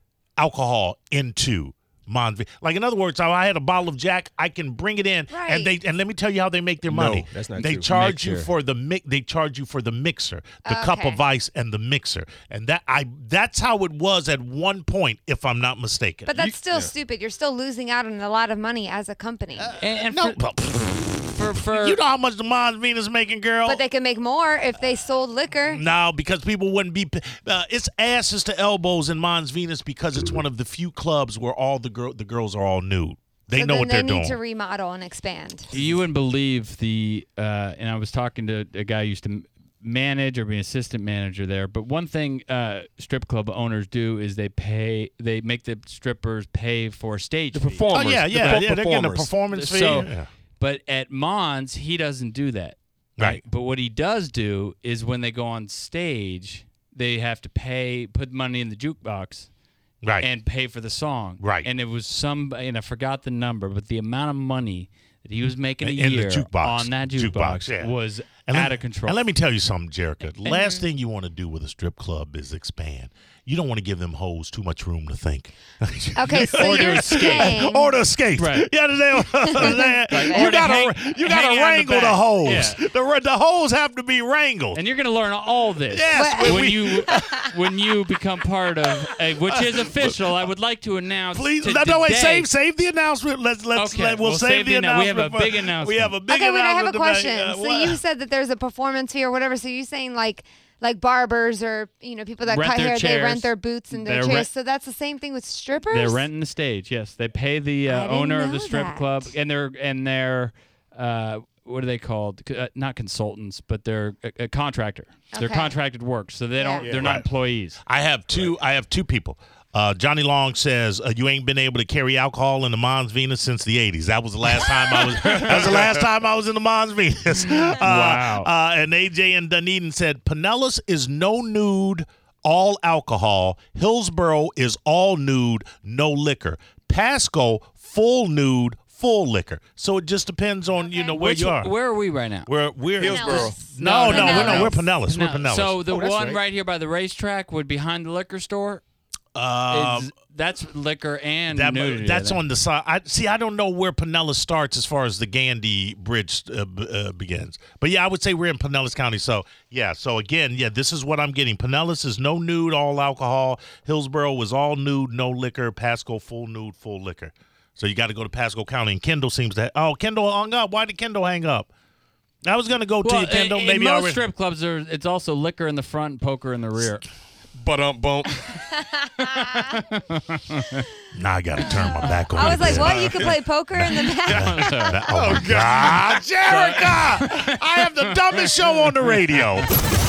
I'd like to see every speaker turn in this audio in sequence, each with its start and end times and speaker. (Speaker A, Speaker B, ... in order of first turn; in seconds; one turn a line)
Speaker A: 0.4-16.4
Speaker B: 5.3-5.7
Speaker C: 6.9-8.5
Speaker B: 10.6-11.2
Speaker B: 16.3-19.7
Speaker C: 16.4-16.9
Speaker A: 19.6-23.8
Speaker D: 19.8-20.4
Speaker D: 21.2-22.0
Speaker B: 23.6-25.8
Speaker A: 25.7-34.4
Speaker B: 33.5-35.6
Speaker D: 35.7-47.9
Speaker C: 47.5-49.3
Speaker A: 47.9-50.3
Speaker D: 49.5-59.5
Speaker A: 60.0-60.3
Speaker D: 60.2-69.2
Speaker A: 61.4-61.7
Speaker A: 65.8-67.9
Speaker A: 68.5-84.8
Speaker B: 70.5-70.8
Speaker B: 76.2-78.0
Speaker D: 76.5-77.6
Speaker D: 78.4-78.7
Speaker B: 79.4-80.8
Speaker D: 79.6-82.8
Speaker D: 84.7-92.5
Speaker A: 85.9-87.4
Speaker B: 86.1-87.2
Speaker A: 89.5-90.2
Speaker A: 91.3-98.0
Speaker D: 93.7-96.2
Speaker B: 96.3-106.2
Speaker D: 102.5-104.5
Speaker D: 105.9-117.8
Speaker B: 107.8-109.3
Speaker B: 115.3-115.7
Speaker B: 116.6-116.9
Speaker C: 116.8-117.2
Speaker A: 117.0-117.3
Speaker A: 117.8-141.8
Speaker D: 124.9-125.7
Speaker D: 127.8-128.5
Speaker B: 140.8-141.1
Speaker D: 141.2-142.5
Speaker A: 142.4-145.8
Speaker C: 143.0-143.6
Speaker B: 143.0-144.8
Speaker D: 143.8-148.8
Speaker C: 145.9-146.4
Speaker A: 149.3-150.1
Speaker D: 149.7-152.4
Speaker A: 151.5-171.7
Speaker A: 172.4-174.2
Speaker D: 173.0-177.0
Speaker C: 177.6-178.5
Speaker B: 178.8-179.3
Speaker D: 179.2-180.8
Speaker A: 181.1-189.7
Speaker B: 181.6-184.5
Speaker D: 184.3-185.0
Speaker C: 184.5-186.3
Speaker D: 186.4-189.7